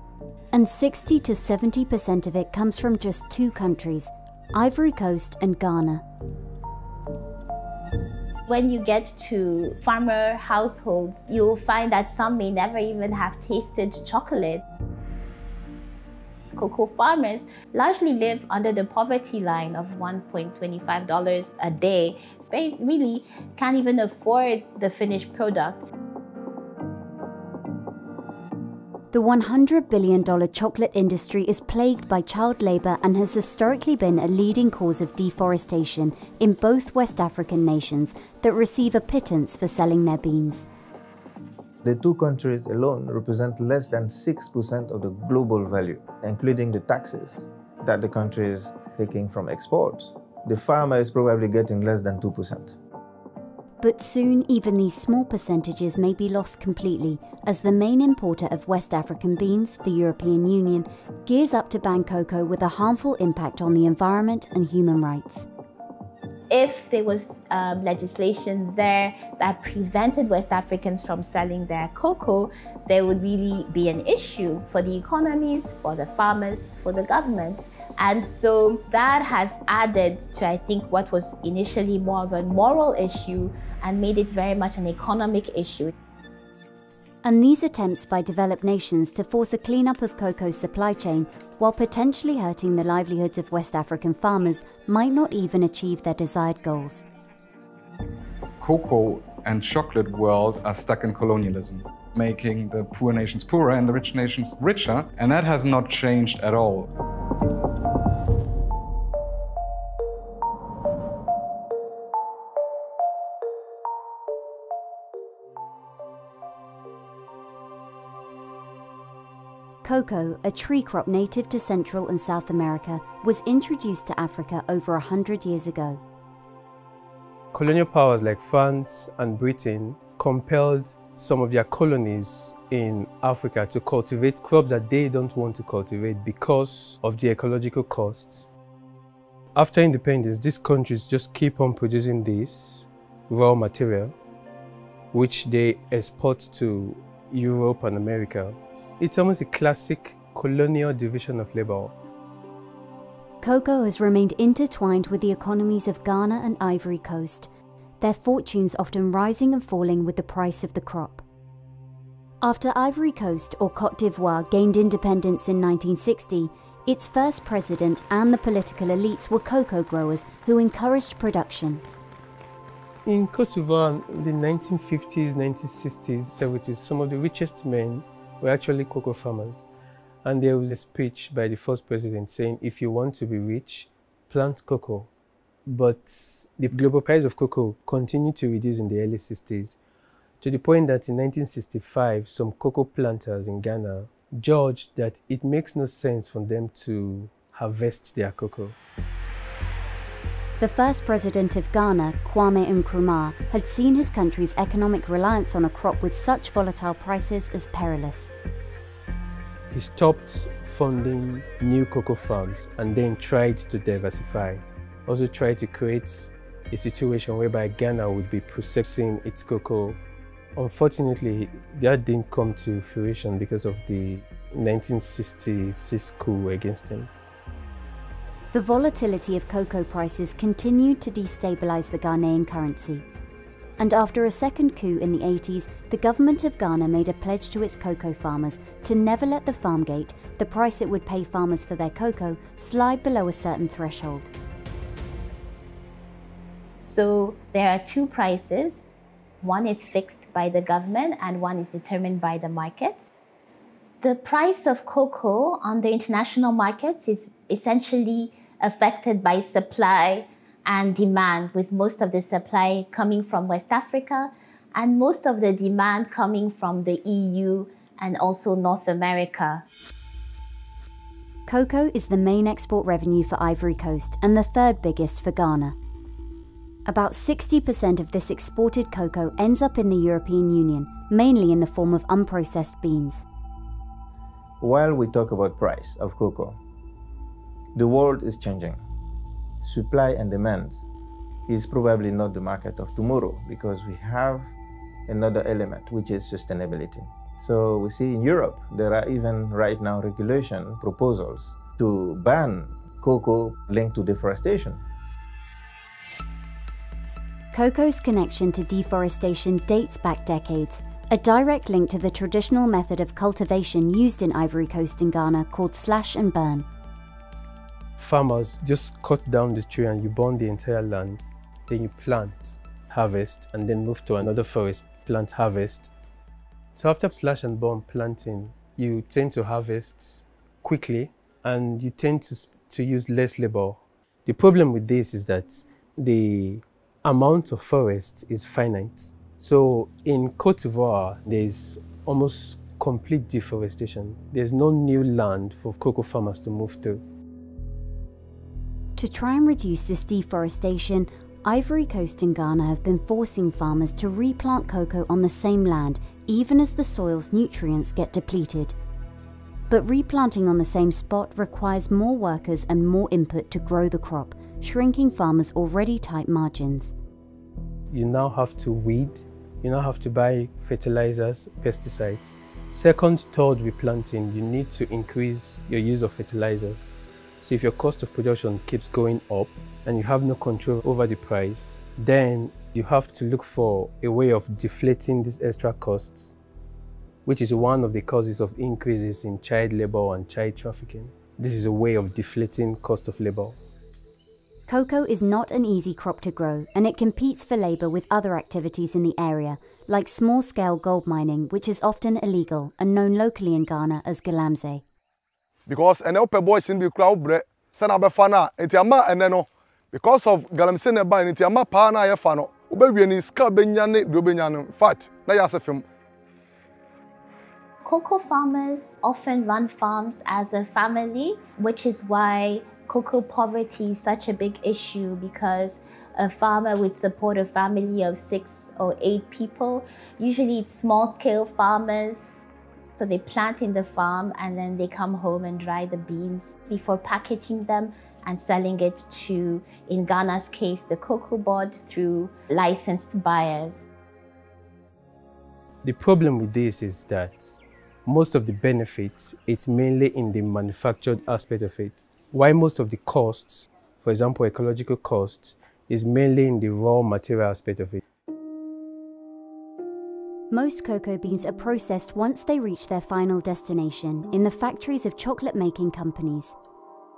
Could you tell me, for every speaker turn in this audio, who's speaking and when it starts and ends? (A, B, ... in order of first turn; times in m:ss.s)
0:00.5-0:06.0 A
0:08.5-0:14.6 B
0:16.5-0:25.8 B
0:29.1-0:40.7 A
0:41.8-0:52.8 C
0:53.8-1:05.5 A
1:06.5-1:25.9 B
1:27.2-1:37.0 A
1:38.6-1:46.9 D
1:59.8-2:06.0 A
2:07.5-2:18.3 E
2:19.6-2:24.1 E
2:25.1-2:31.9 E
2:33.4-2:37.5 A
2:38.0-2:41.2 A
2:42.4-2:51.8 A
2:53.0-2:59.6 E
3:00.2-3:05.1 E
3:05.7-3:09.8 E
3:10.4-3:18.7 E
3:20.6-3:28.3 A
3:29.7-3:40.0 E
3:40.6-3:47.1 E
3:48.5-3:53.0 A
3:53.8-4:04.3 A
4:06.8-4:08.8 B
4:09.4-4:13.1 B
4:14.0-4:29.6 B
4:31.5-4:35.8 A
4:36.9-4:43.2 A
4:44.6-4:46.6 C
4:47.8-4:48.8 C
4:49.6-4:50.9 C
4:51.5-4:54.5 C
4:55.1-5:04.8 C
5:07.5-5:16.7 A
5:18.0-5:25.8 E
5:26.8-5:47.0 E
5:49.0-5:58.8 A
5:59.7-6:06.9 A
6:07.9-6:26.2 E
6:27.2-6:33.5 E
6:34.7-6:44.8 A
6:45.7-6:55.8 F
6:57.8-7:12.4 B
7:13.0-7:23.9 B
7:25.8-7:27.4 E
7:28.0-7:38.0 E
7:40.5-7:46.6 A